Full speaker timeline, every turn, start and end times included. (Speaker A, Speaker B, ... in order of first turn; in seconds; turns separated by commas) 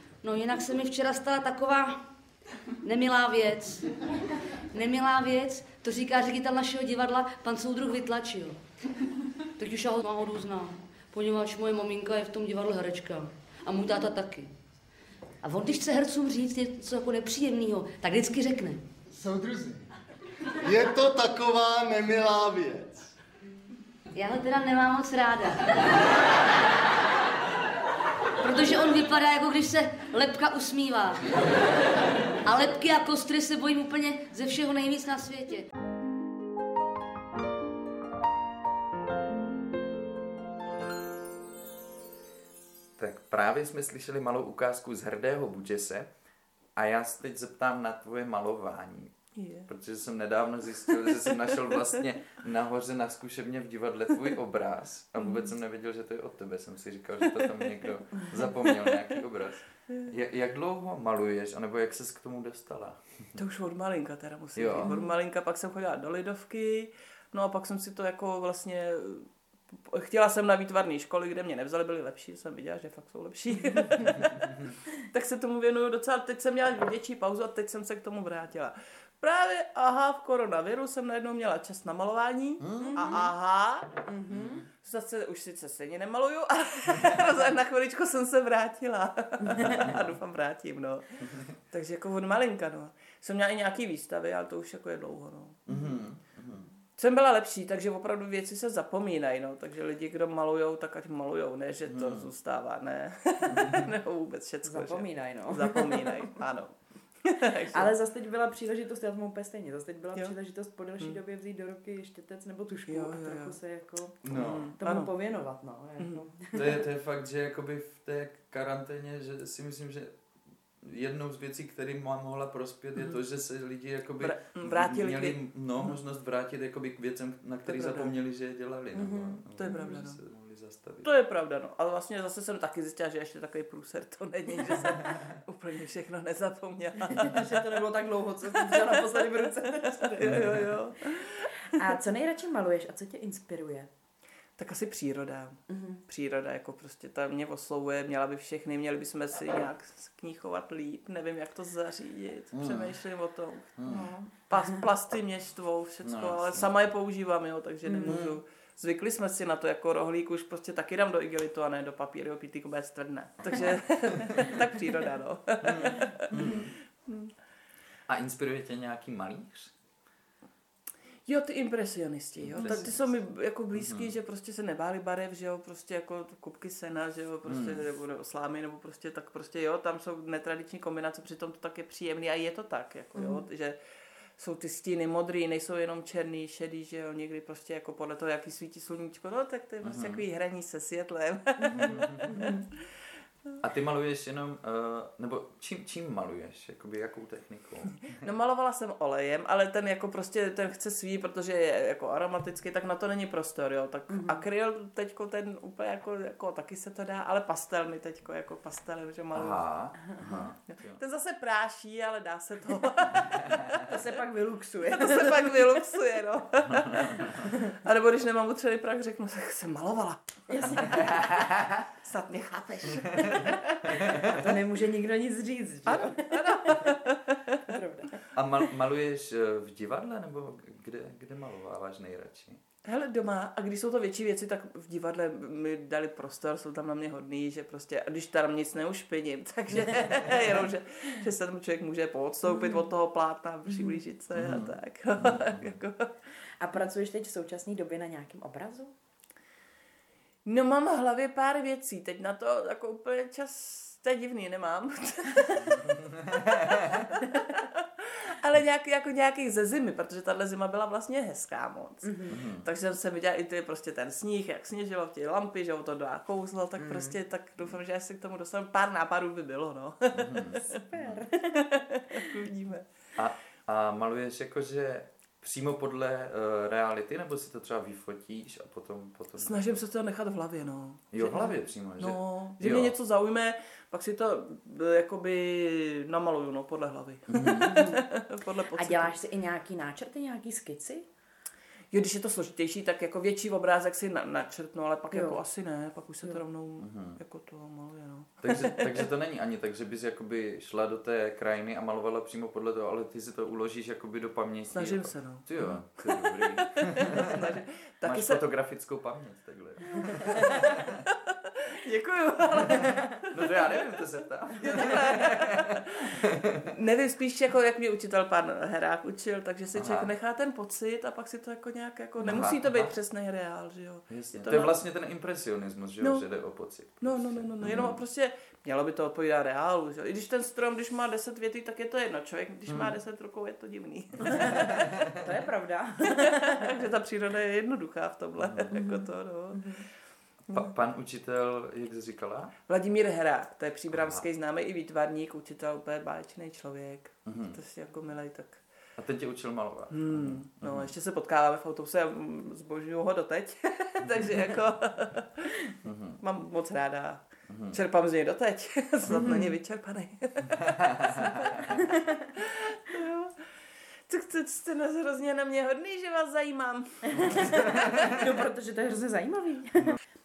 Speaker A: 0.2-2.0, Speaker A: 2.8-3.9, Speaker A: 4.7-8.6, Speaker A: 9.6-14.5, Speaker A: 15.4-18.8, Speaker B: 19.1-19.8, Speaker B: 20.6-23.1, Speaker A: 24.1-25.8, Speaker A: 28.4-31.4, Speaker A: 32.4-35.7, Speaker C: 43.0-46.1, Speaker C: 46.8-63.3, Speaker D: 49.3-49.7, Speaker D: 63.4-84.0, Speaker C: 64.5-64.9, Speaker E: 64.8-65.1, Speaker C: 82.6-83.2, Speaker E: 82.8-83.3, Speaker E: 84.1-84.7, Speaker C: 84.3-84.7, Speaker D: 84.8-95.6, Speaker E: 89.5-89.9, Speaker C: 89.6-90.0, Speaker C: 95.7-96.7, Speaker D: 97.0-107.9, Speaker C: 101.9-102.3, Speaker C: 103.5-103.9, Speaker E: 104.6-106.4, Speaker E: 107.7-116.8, Speaker D: 112.9-113.6, Speaker C: 114.2-114.7, Speaker D: 114.3-115.1, Speaker C: 116.5-120.2, Speaker C: 120.8-131.1, Speaker D: 124.2-125.4, Speaker D: 127.7-128.1, Speaker E: 128.9-129.8, Speaker D: 129.6-130.2, Speaker D: 131.0-137.4, Speaker C: 134.6-135.4, Speaker E: 137.1-140.7, Speaker D: 138.7-139.0, Speaker D: 140.0-141.5, Speaker C: 140.2-140.5, Speaker E: 141.7-143.9, Speaker D: 144.6-167.3, Speaker E: 145.7-146.0, Speaker C: 152.5-152.9, Speaker C: 153.8-154.1, Speaker E: 153.8-154.8, Speaker C: 156.0-156.7, Speaker E: 157.8-158.2, Speaker C: 158.0-158.4, Speaker C: 163.5-164.6, Speaker C: 165.6-166.7, Speaker E: 166.3-166.6, Speaker C: 168.1-169.7, Speaker D: 171.3-183.8, Speaker C: 172.3-173.1, Speaker E: 172.6-172.9, Speaker C: 173.7-174.1, Speaker C: 177.4-177.8, Speaker E: 183.1-183.4, Speaker D: 184.4-192.5, Speaker C: 189.8-190.2, Speaker E: 191.6-192.7, Speaker C: 191.7-192.4, Speaker C: 193.6-198.2, Speaker D: 198.1-213.9, Speaker E: 204.1-204.4, Speaker C: 209.3-211.0, Speaker E: 213.8-215.8, Speaker D: 214.9-221.1, Speaker E: 217.3-217.7, Speaker E: 220.5-221.5, Speaker D: 221.9-224.3, Speaker E: 223.2-227.0, Speaker D: 225.8-227.7, Speaker E: 227.6-228.1, Speaker C: 228.3-232.6, Speaker D: 232.8-246.1, Speaker E: 242.4-242.9, Speaker E: 243.7-244.0, Speaker C: 244.3-245.7, Speaker E: 246.6-248.9, Speaker D: 250.4-270.8, Speaker E: 262.0-262.4, Speaker C: 262.3-262.6, Speaker E: 266.8-267.1, Speaker C: 270.1-271.2, Speaker E: 270.5-272.4, Speaker D: 271.5-272.9, Speaker C: 273.1-279.8, Speaker D: 279.4-289.1, Speaker C: 281.1-282.9, Speaker C: 287.3-288.0, Speaker E: 287.4-288.1, Speaker E: 288.7-291.1, Speaker D: 291.9-298.9, Speaker E: 295.1-295.4, Speaker C: 296.8-297.2, Speaker C: 298.4-311.0, Speaker D: 304.7-308.4, Speaker D: 310.0-313.6, Speaker C: 313.3-316.6, Speaker D: 314.5-324.8, Speaker C: 319.7-320.1, Speaker C: 322.2-322.9, Speaker C: 324.1-328.0, Speaker D: 327.0-335.2, Speaker C: 332.7-332.9, Speaker E: 334.2-336.9, Speaker C: 334.5-335.0, Speaker D: 336.1-339.8, Speaker C: 338.4-338.7, Speaker E: 338.7-339.8, Speaker C: 340.5-342.5, Speaker D: 342.7-348.6, Speaker C: 343.9-344.2, Speaker C: 347.2-347.6, Speaker C: 348.9-350.9, Speaker D: 349.9-355.6, Speaker C: 355.8-356.2, Speaker D: 356.2-363.4, Speaker C: 357.5-357.8, Speaker E: 359.1-359.5, Speaker C: 360.6-361.5, Speaker E: 361.8-362.3, Speaker D: 364.1-368.2, Speaker E: 367.1-370.0, Speaker C: 367.6-367.9